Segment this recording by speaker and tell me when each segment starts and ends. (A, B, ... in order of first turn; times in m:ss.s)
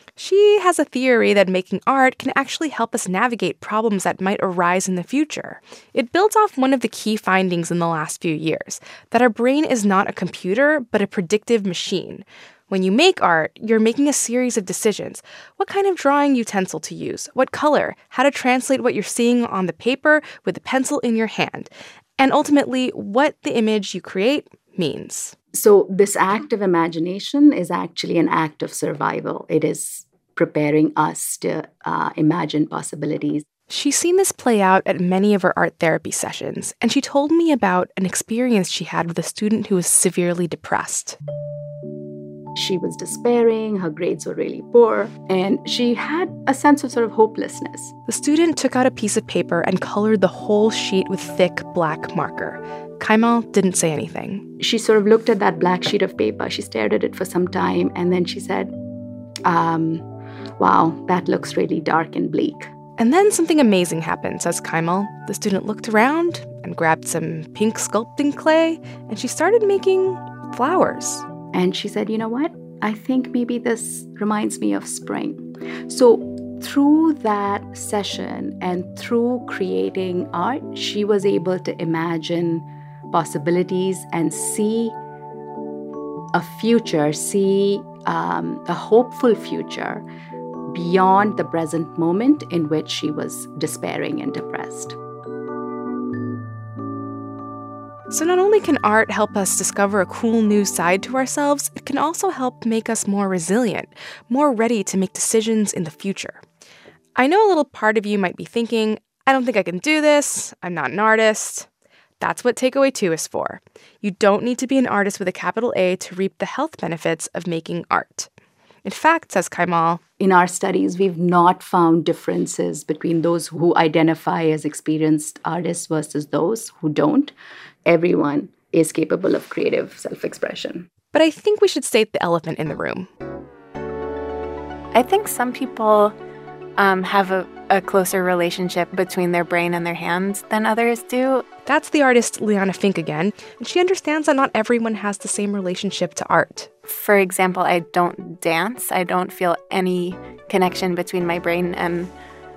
0:00.2-0:25.3 A
0:25.5-0:33.4 B
0:33.7-0:41.2 A
0:42.5-0:47.9 B
0:48.1-0:54.4 A
0:54.6-0:58.7 B
0:59.4-1:00.1 B
1:00.6-1:02.7 B
1:03.0-1:11.2 A
1:11.5-1:25.0 B
1:26.3-1:30.1 B
1:30.7-1:35.0 B
1:38.1-1:46.4 A
1:47.2-1:51.7 A
1:52.2-1:58.3 A
1:58.8-2:00.0 A
2:00.2-2:07.3 B
2:07.8-2:10.9 B
2:11.1-2:13.1 A
2:14.9-2:16.1 C
2:16.8-2:21.4 C
2:21.6-2:26.7 A
2:26.9-2:32.1 C